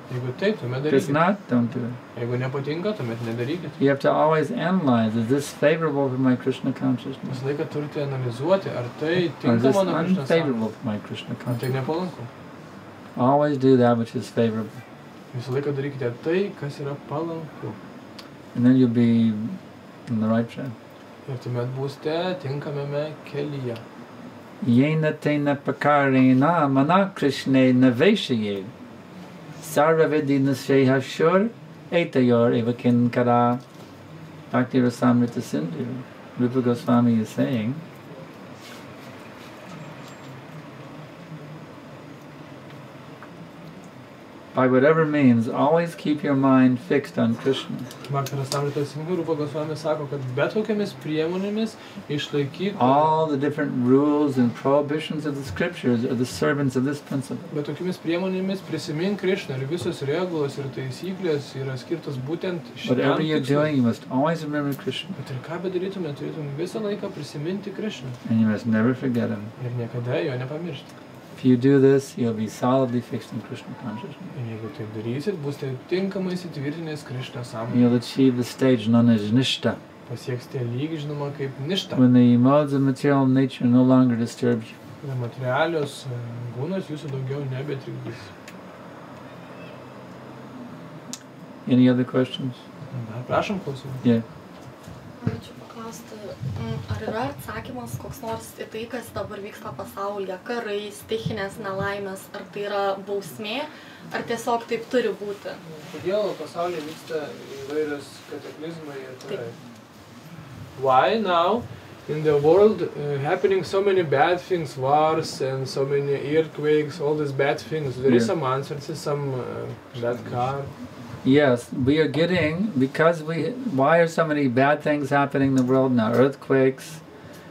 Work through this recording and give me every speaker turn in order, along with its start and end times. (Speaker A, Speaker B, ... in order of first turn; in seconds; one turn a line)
Speaker A: 0.1-1.2
Speaker B: 0.9-2.0
Speaker A: 2.1-3.8
Speaker B: 3.8-7.4
Speaker A: 7.2-10.6
Speaker B: 9.3-11.8
Speaker A: 11.4-12.3
Speaker B: 13.2-14.8
Speaker A: 15.3-17.8
Speaker B: 18.5-20.7
Speaker A: 21.2-23.8
Speaker B: 24.6-28.7
Speaker B: 29.6-33.6
Speaker B: 34.5-37.8
Speaker B: 44.5-47.9
Speaker A: 48.1-53.1
Speaker B: 52.8-57.5
Speaker A: 57.5-63.7
Speaker B: 62.8-65.2
Speaker A: 65.2-68.2
Speaker B: 68.2-69.5
Speaker A: 69.6-70.9
Speaker B: 71.3-74.3
Speaker A: 74.3-77.9
Speaker B: 77.7-79.8
Speaker A: 80.1-82.0
Speaker B: 81.9-84.8
Speaker A: 85.0-88.3
Speaker B: 91.6-92.6
Speaker A: 92.9-94.0
Speaker C: 95.2-105.6
Speaker A: 105.6-109.5
Speaker A: 110.8-120.7
Speaker B: 118.0-118.3
Speaker B: 121.2-127.0